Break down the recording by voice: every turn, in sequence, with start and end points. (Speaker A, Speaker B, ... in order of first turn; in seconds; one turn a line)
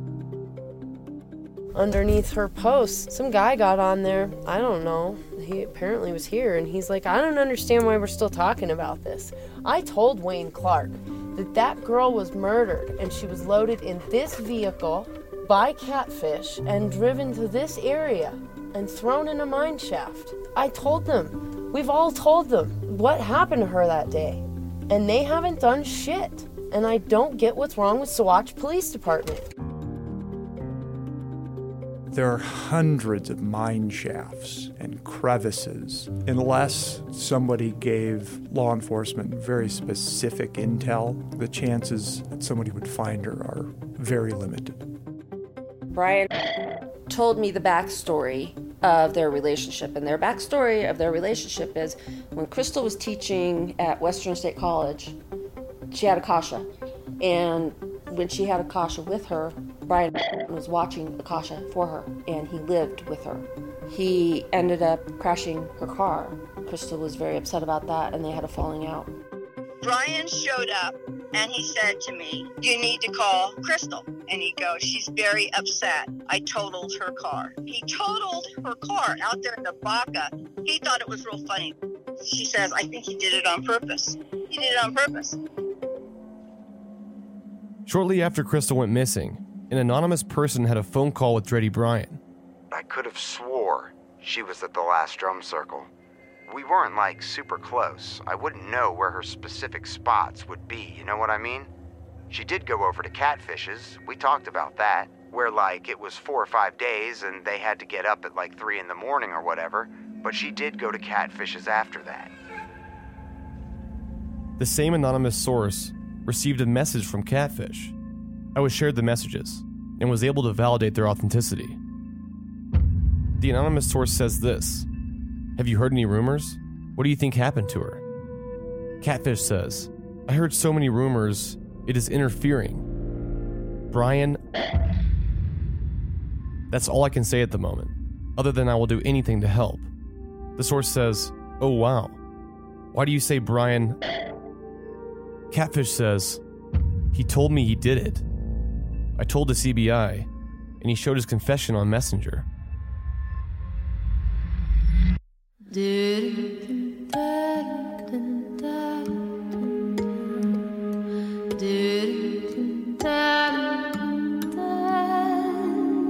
Speaker A: 1.7-29.4
Speaker B: 32.1-44.8
Speaker C: 45.9-55.1
Speaker C: 55.9-56.7
Speaker C: 57.2-69.1
Speaker D: 69.8-85.4
Speaker E: 87.8-92.2
Speaker F: 92.7-95.9
Speaker F: 96.5-101.7
Speaker F: 102.3-112.3
Speaker E: 114.6-117.9
Speaker E: 118.5-121.8
Speaker E: 123.4-124.8
Speaker E: 125.5-128.0
Speaker E: 129.0-132.8
Speaker E: 133.9-134.4
Speaker E: 136.7-139.9
Speaker E: 140.6-142.2
Speaker E: 142.9-144.0
Speaker E: 145.5-146.4
Speaker E: 147.1-148.2
Speaker E: 149.2-150.3
Speaker E: 150.8-152.4